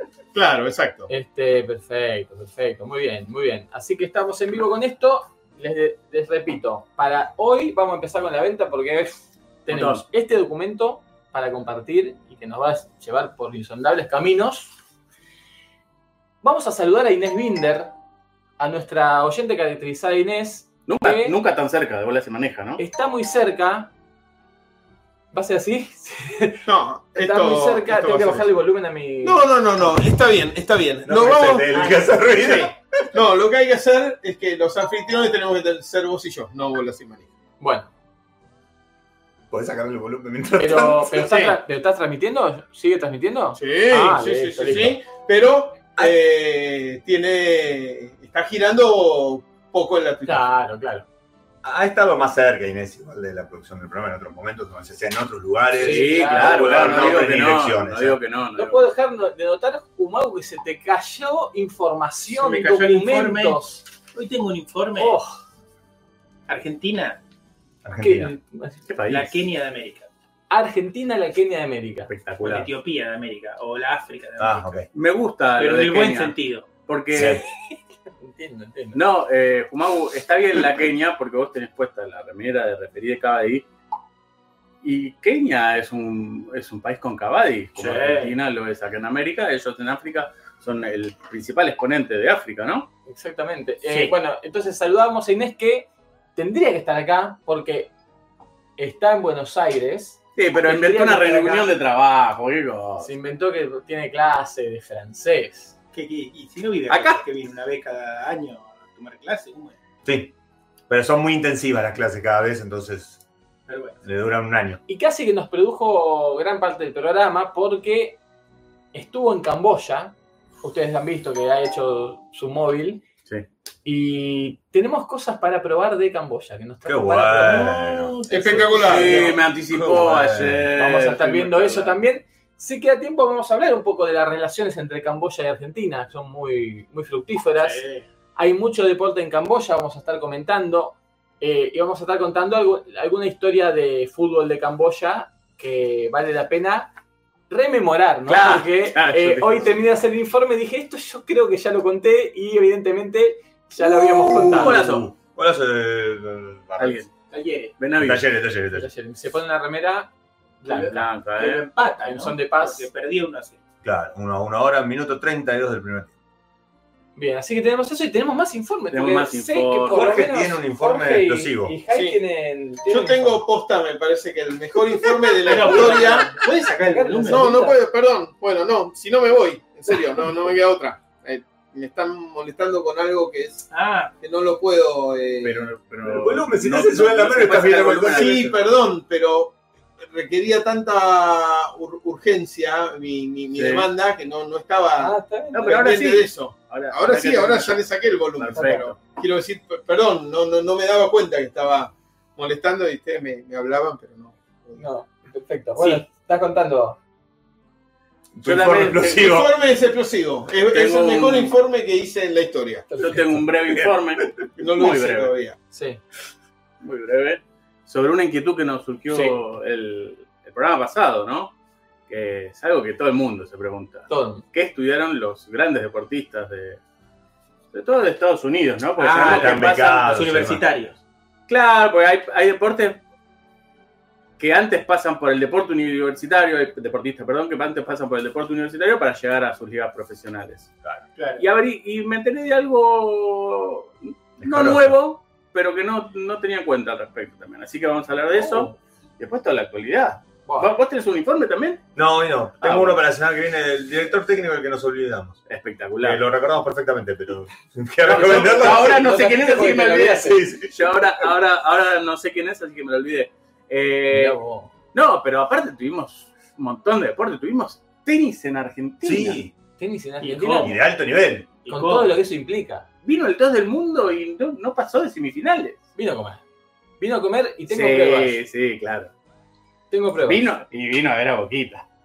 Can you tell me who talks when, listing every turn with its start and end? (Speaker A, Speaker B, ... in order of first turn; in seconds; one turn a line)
Speaker A: 0.3-1.1
Speaker B: 1.1-14.7
Speaker C: 9.7-10.0
Speaker B: 16.4-17.9
Speaker B: 18.6-21.4
Speaker C: 20.9-22.8
Speaker B: 22.8-23.9
Speaker B: 25.3-30.1
Speaker A: 26.6-28.5
Speaker A: 29.2-37.3
Speaker D: 31.1-33.2
Speaker B: 37.6-37.9
Speaker D: 39.5-41.3
Speaker B: 40.6-45.0
Speaker A: 41.2-41.5
Speaker A: 43.6-50.5
Speaker D: 44.7-44.9
Speaker B: 50.2-51.0
Speaker D: 51.6-58.2
Speaker B: 55.7-57.2
Speaker C: 55.8-58.9
Speaker B: 58.5-63.8
Speaker E: 62.3-63.6
Speaker E: 64.1-65.2
Speaker B: 65.0-65.4
Speaker E: 66.5-67.2
Speaker D: 67.8-68.3
Speaker B: 68.0-68.8
Speaker C: 68.9-69.4
Speaker E: 69.0-70.1
Speaker B: 70.5-72.1
Speaker C: 72.1-72.7
Speaker E: 72.4-74.8
Speaker D: 74.4-74.9
Speaker C: 74.9-77.4
Speaker E: 75.5-76.7
Speaker D: 77.1-77.4
Speaker B: 78.2-79.0
Speaker C: 78.9-83.7
Speaker C: 84.8-92.9
Speaker B: 87.8-88.3
Speaker B: 93.1-97.9
Speaker E: 93.8-94.1
Speaker B: 98.8-101.7
Speaker C: 100.3-103.1
Speaker B: 103.0-105.7
Speaker E: 105.9-109.7
Speaker C: 106.9-107.2
Speaker D: 110.0-110.3
Speaker D: 110.9-113.2
Speaker E: 113.7-114.0
Speaker D: 114.0-114.8
Speaker B: 114.9-118.2
Speaker B: 118.9-123.0
Speaker B: 123.8-127.8
Speaker D: 126.8-130.7
Speaker E: 127.3-129.3
Speaker A: 128.3-129.3
Speaker C: 128.8-131.9
Speaker B: 130.7-137.8
Speaker C: 137.6-138.0
Speaker B: 138.3-146.9
Speaker B: 147.5-154.9
Speaker C: 148.3-149.8
Speaker D: 154.2-157.0
Speaker C: 154.3-155.1
Speaker C: 156.8-157.1
Speaker E: 157.3-157.7
Speaker C: 157.8-158.3
Speaker D: 158.0-158.9
Speaker B: 158.7-160.1
Speaker B: 160.6-161.0
Speaker C: 160.7-161.7
Speaker E: 160.7-163.6
Speaker B: 162.0-162.9
Speaker D: 163.8-166.1
Speaker B: 167.2-173.4
Speaker C: 168.9-170.0
Speaker D: 169.9-171.8
Speaker A: 171.9-172.2
Speaker A: 172.9-176.4
Speaker E: 175.4-177.5
Speaker B: 175.4-177.8
Speaker A: 177.2-183.7
Speaker E: 183.7-184.1
Speaker A: 184.2-185.7
Speaker C: 185.4-188.7
Speaker D: 186.0-188.6
Speaker A: 188.0-189.6
Speaker A: 190.1-204.8
Speaker C: 193.5-193.9
Speaker B: 195.0-195.8
Speaker C: 195.5-197.8
Speaker C: 198.3-198.9
Speaker B: 204.8-207.0
Speaker D: 208.3-209.5
Speaker C: 208.4-209.3
Speaker A: 209.1-212.9
Speaker C: 210.7-211.6
Speaker B: 212.9-213.4
Speaker C: 213.0-215.3
Speaker D: 213.7-214.4
Speaker A: 214.6-215.6
Speaker B: 215.7-216.0
Speaker C: 216.8-221.5
Speaker B: 219.1-219.4
Speaker C: 222.1-226.8
Speaker B: 224.1-224.4
Speaker C: 227.7-230.0
Speaker E: 229.0-231.0
Speaker D: 229.2-230.6
Speaker C: 231.5-233.0
Speaker C: 234.4-240.7
Speaker E: 241.2-241.4
Speaker C: 241.4-251.8
Speaker D: 244.4-245.0
Speaker B: 248.3-248.8
Speaker B: 250.4-250.7
Speaker D: 251.9-255.4
Speaker C: 252.6-253.0
Speaker C: 255.5-256.2
Speaker D: 256.0-259.1
Speaker C: 258.0-264.4
Speaker B: 258.1-260.4
Speaker D: 260.2-260.7
Speaker B: 264.1-264.7
Speaker C: 264.9-269.4
Speaker D: 269.0-269.5
Speaker B: 269.8-270.8
Speaker E: 270.2-270.8
Speaker D: 270.6-271.5
Speaker E: 271.6-272.1
Speaker B: 271.7-272.9
Speaker C: 273.0-275.8
Speaker B: 275.9-276.4
Speaker B: 277.0-278.4
Speaker C: 277.7-279.1
Speaker B: 279.9-280.5
Speaker C: 280.2-281.9